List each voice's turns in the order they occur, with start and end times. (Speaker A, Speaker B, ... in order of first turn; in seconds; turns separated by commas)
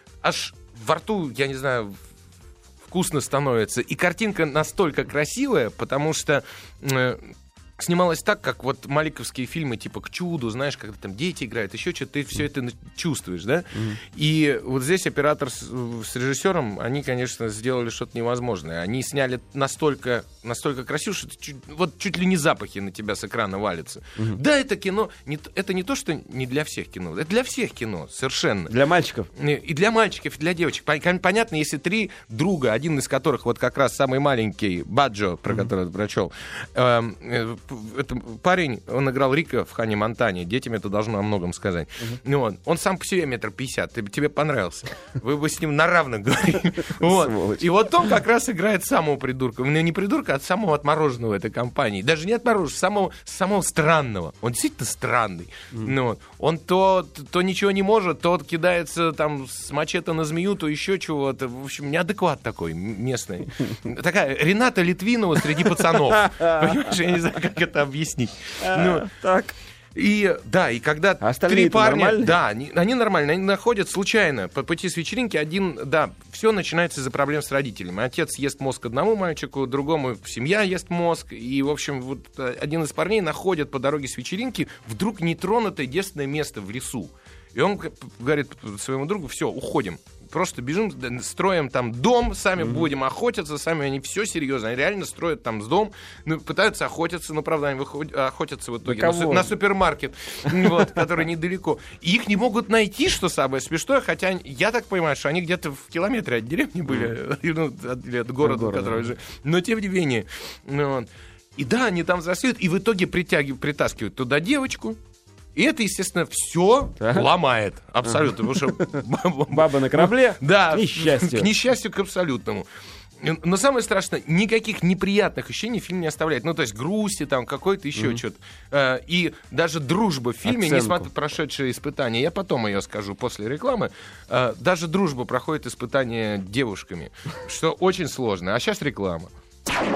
Speaker A: 0.2-2.0, Speaker A: 2.9-28.7, Speaker B: 28.7-29.3, Speaker A: 29.4-69.1, Speaker B: 47.0-47.6, Speaker B: 66.1-66.9, Speaker B: 68.6-69.5, Speaker A: 69.9-115.0, Speaker B: 71.2-72.3, Speaker B: 98.8-99.5, Speaker B: 108.4-109.1, Speaker A: 115.5-122.7, Speaker B: 117.0-117.3, Speaker B: 118.1-121.5, Speaker A: 123.2-139.3, Speaker B: 128.0-128.2, Speaker B: 130.5-131.1